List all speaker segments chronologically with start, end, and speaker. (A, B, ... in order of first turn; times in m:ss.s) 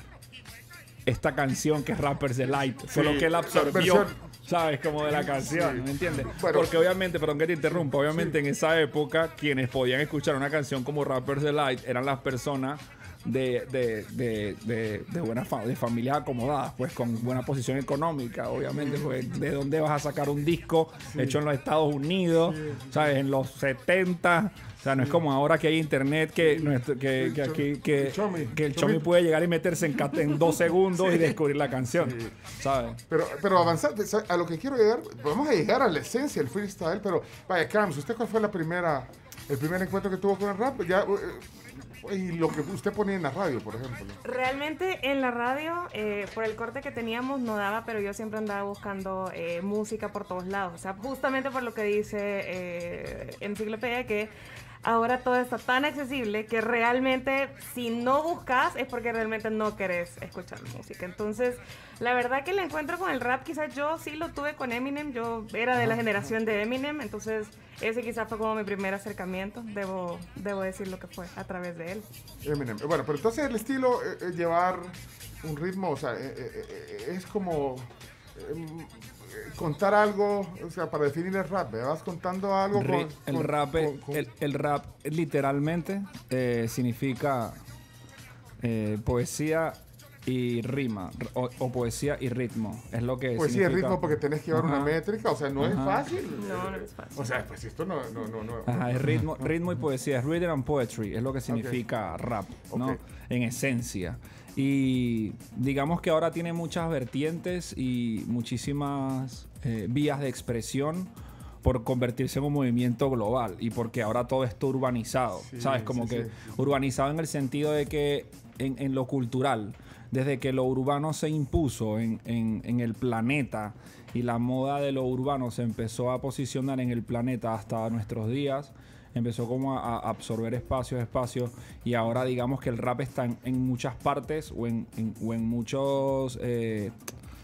0:01.1-0:33.0 A
0:02.9-0:04.2 B
0:05.0-0:06.9 B
0:08.1-0:08.4 B
0:18.7-0:19.1 B
0:21.1-0:21.4 B
0:22.3-0:23.1 B
0:24.9-0:25.2 B
0:26.4-0:29.0 B
0:32.0-0:32.4 B
0:33.1-0:44.2 B
0:44.2-0:54.3 C
0:54.8-1:12.1 C
1:05.7-1:06.3 B
1:12.4-1:24.3 B
1:22.7-1:27.6 A
1:28.6-1:34.9 A
1:33.4-1:39.5 B
1:35.6-1:36.0 A
1:36.4-1:37.3 C
1:38.7-1:51.1 A
1:41.5-1:41.8 B
1:42.7-1:43.0 B
1:51.6-2:17.0 A
1:55.5-1:56.6 B